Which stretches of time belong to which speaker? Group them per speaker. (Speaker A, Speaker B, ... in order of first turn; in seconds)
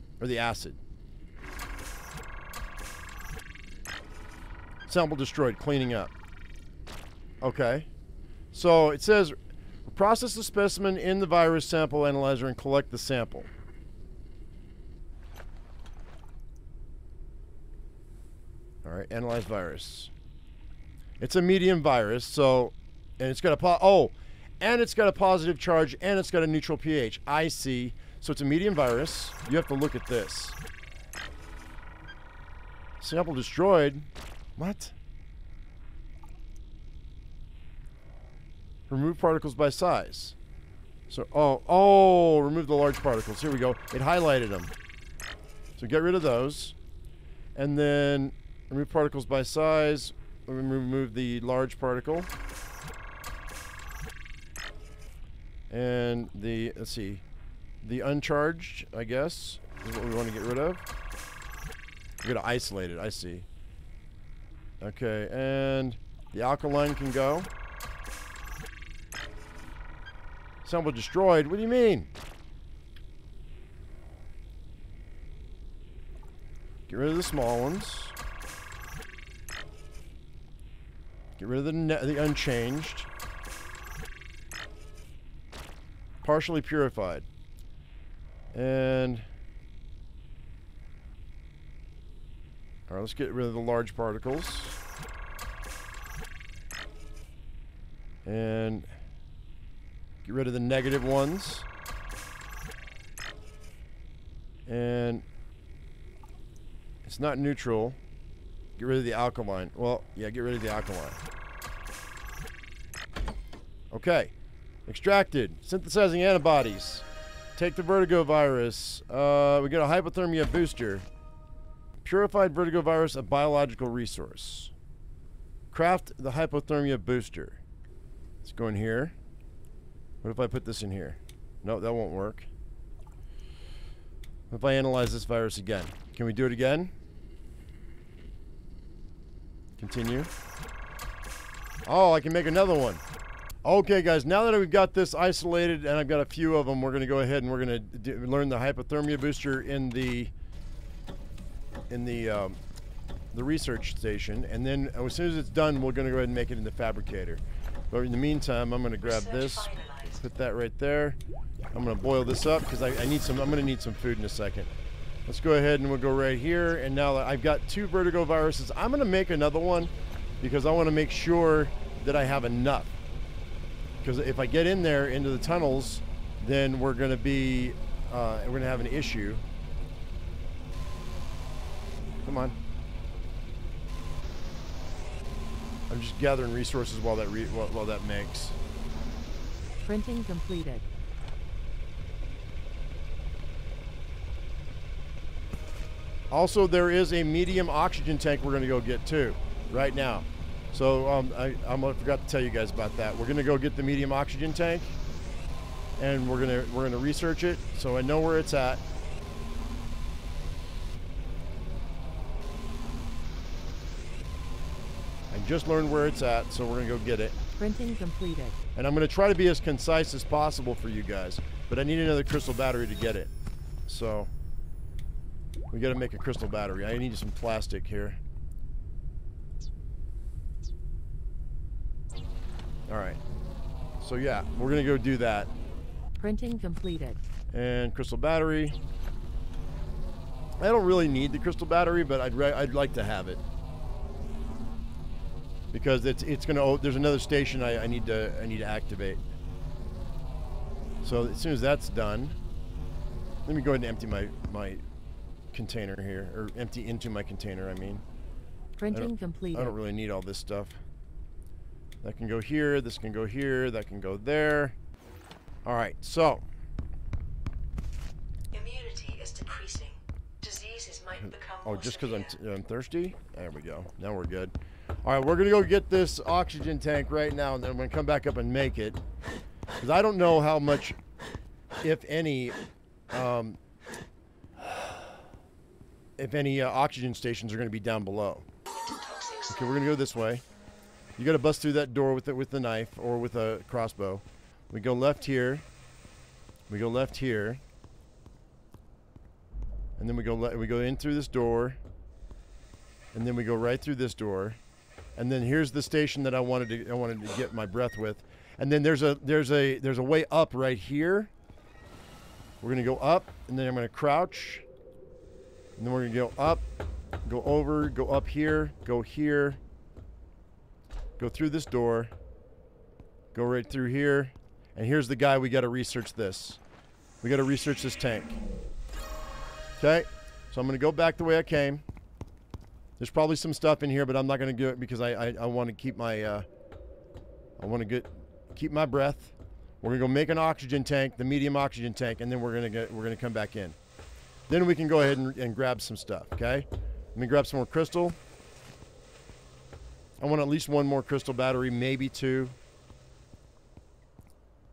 Speaker A: 0.2-0.8, 4.9-6.1, 7.4-7.9, 8.5-9.3, 9.9-13.5, 18.8-20.1, 21.2-30.6, 33.0-34.9, 38.9-40.4, 41.1-44.7, 45.8-46.8, 47.6-52.3, 55.7-57.2, 57.8-60.9, 62.2-63.5, 64.8-67.5, 70.6-72.1, 76.9-78.2, 81.4-83.1, 86.2-87.3, 88.5-89.3, 92.9-94.8, 98.2-98.9, 100.2-101.7, 104.7-105.2, 107.0-108.0, 108.8-111.2, 113.9-114.3, 114.9-117.0, 117.6-121.1, 122.0-124.7, 125.7-127.6, 128.4-129.2, 130.2-132.5, 134.5-136.9, 139.8-140.3, 141.9-143.0, 143.6-150.3, 151.9-152.6, 153.3-161.2, 161.7-164.7, 165.3-173.0, 174.0-179.4, 182.2-182.6, 185.9-188.6, 196.3-205.0, 206.0-208.8, 215.3-217.4, 218.8-223.3, 223.9-224.3, 225.7-228.2, 232.9-233.2, 234.0-235.5, 237.5-238.8, 240.6-243.4, 245.7-249.2, 251.0-252.4, 253.5-254.8, 255.5-258.0, 258.9-260.8, 262.0-264.8, 265.6-266.4, 271.2-279.0, 279.8-281.0, 281.8-282.6, 283.1-283.6, 286.2-288.4, 289.5-290.4, 291.2-295.6, 296.7-297.6, 300.0-301.8, 303.1-304.6, 305.1-311.3, 312.6-314.6, 315.8-316.6, 317.2-319.6, 321.2-322.1, 323.3-326.6, 327.2-328.4, 329.8-331.8, 333.0-336.5, 337.6-343.8, 344.5-348.2, 350.2-352.6
Speaker B: 159.0-160.2, 268.5-272.4, 288.7-289.9
Speaker C: 189.8-190.8, 217.6-218.6, 236.2-237.2, 258.8-259.8